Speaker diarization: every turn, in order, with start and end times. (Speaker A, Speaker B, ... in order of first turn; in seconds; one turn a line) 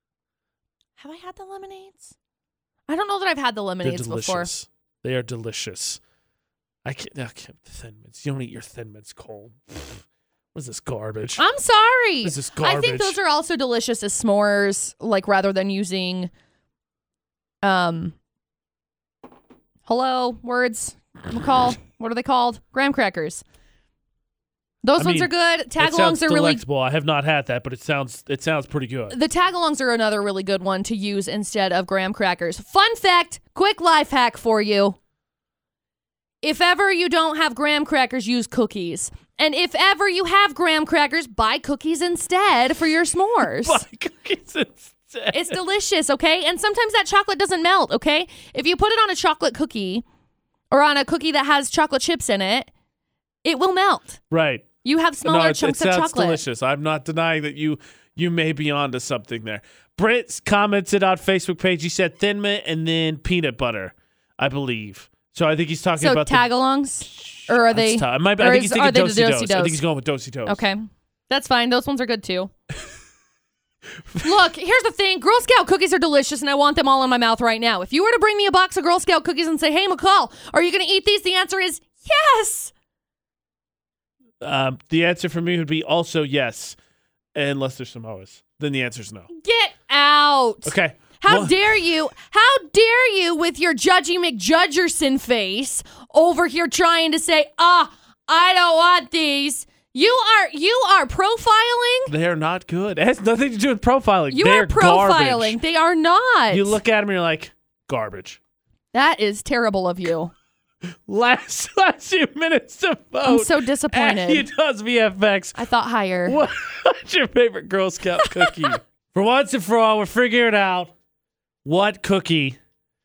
Speaker A: 1.0-2.1
Speaker A: 2.9-4.5
Speaker B: 3.8-6.0
Speaker B: 6.8-11.4
Speaker A: 11.4-16.3
Speaker B: 12.2-13.2
Speaker A: 17.6-18.1
Speaker A: 19.9-23.4
Speaker A: 24.8-26.6
Speaker B: 25.0-29.1
Speaker A: 29.1-35.0
Speaker A: 36.4-43.8
Speaker B: 43.4-45.6
Speaker A: 45.3-50.0
Speaker A: 50.7-52.7
Speaker A: 53.4-54.2
Speaker B: 54.3-54.6
Speaker A: 54.8-56.4
Speaker B: 55.2-66.5
Speaker A: 66.0-69.8
Speaker B: 67.0-70.6
Speaker A: 70.4-72.5
Speaker A: 74.1-82.7
Speaker B: 84.4-86.8
Speaker B: 87.4-89.3
Speaker A: 89.3-102.1
Speaker B: 90.6-91.7
Speaker B: 102.1-105.6
Speaker A: 104.3-106.8
Speaker B: 106.5-108.4
Speaker A: 108.9-110.3
Speaker B: 111.1-115.6
Speaker A: 113.2-114.5
Speaker A: 115.5-116.4
Speaker B: 116.2-120.9
Speaker A: 118.2-118.6
Speaker B: 121.6-122.6